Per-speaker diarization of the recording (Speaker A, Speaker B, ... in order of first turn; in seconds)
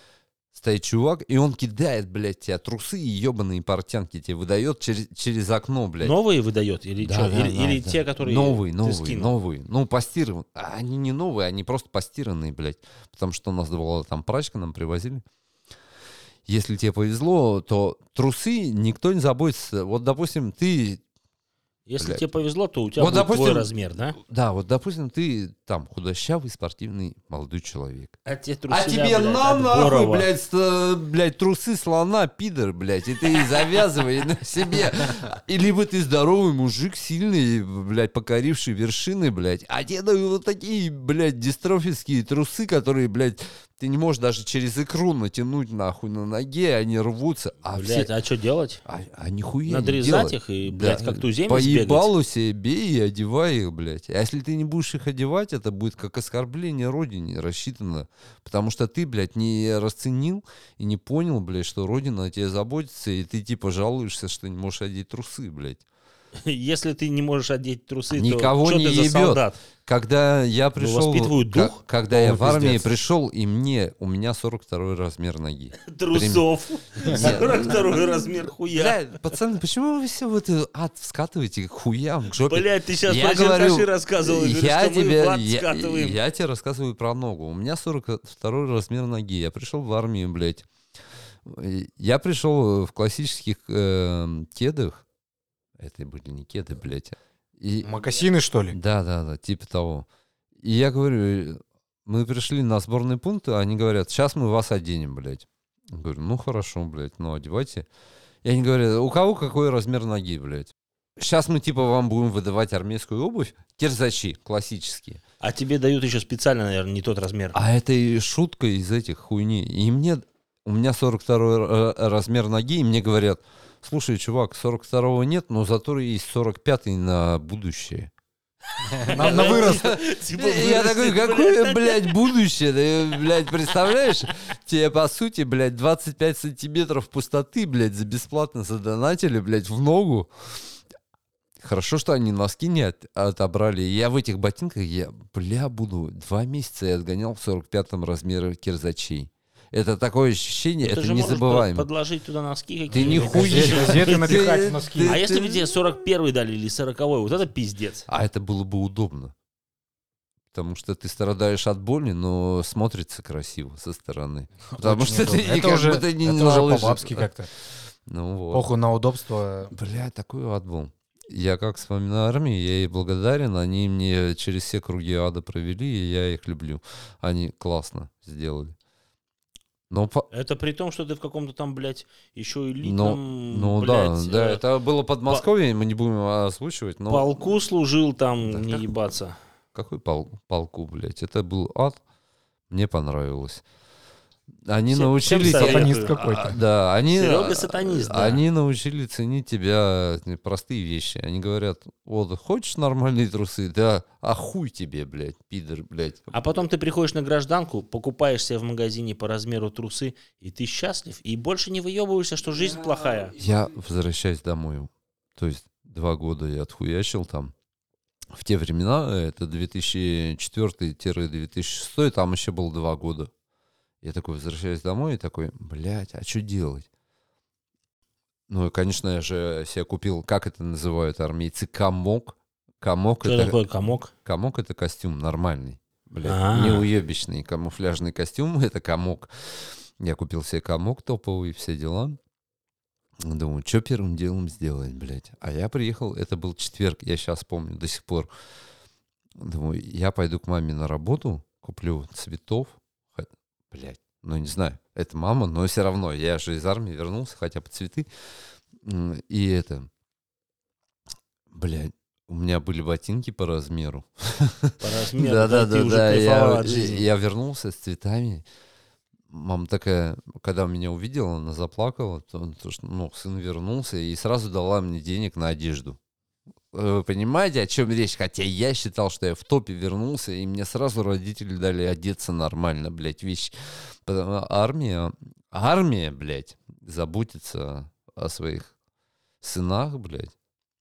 Speaker A: 0.5-6.2, 7.0-15.2, 16.5-21.0, 22.0-22.3, 23.0-28.2, 28.7-48.1, 48.9-65.8, 68.1-76.5, 77.1-78.0, 78.7-90.7, 91.5-95.0, 95.8-97.9, 98.7-100.1, 100.6-107.9, 108.4-115.2, 117.5-128.1, 129.1-140.6, 141.6-151.9, 152.9-155.8, 158.1-159.3, 160.5-167.3, 168.1-168.7, 169.7-178.8, 179.9-180.3, 182.8-187.4, 188.4-188.9, 189.7-192.0, 192.7-193.6, 194.7-206.3, 213.3-217.5, 218.3-223.3, 224.0-226.9, 228.5-233.6, 234.2-242.2, 243.2-248.3, 249.4-258.1, 258.8-259.9, 261.5-268.4, 269.3-276.0, 276.7-288.7, 289.4-290.3
Speaker B: 6.0-9.3, 21.9-24.2, 28.3-30.3, 47.7-48.8, 49.7-52.1, 66.4-69.6, 70.8-71.8, 75.8-79.0, 82.5-86.2, 115.4-117.6, 128.7-132.3, 150.8-154.5, 155.1-158.1, 180.3-184.6, 187.1-189.4, 194.9-196.1, 197.1-198.4, 206.3-213.4, 233.2-234.1, 236.2-236.9, 264.8-267.1
Speaker C: 72.1-72.9, 97.8-98.8, 128.9-129.8, 152.9-155.2, 164.7-167.5, 168.5-169.7, 195.2-196.6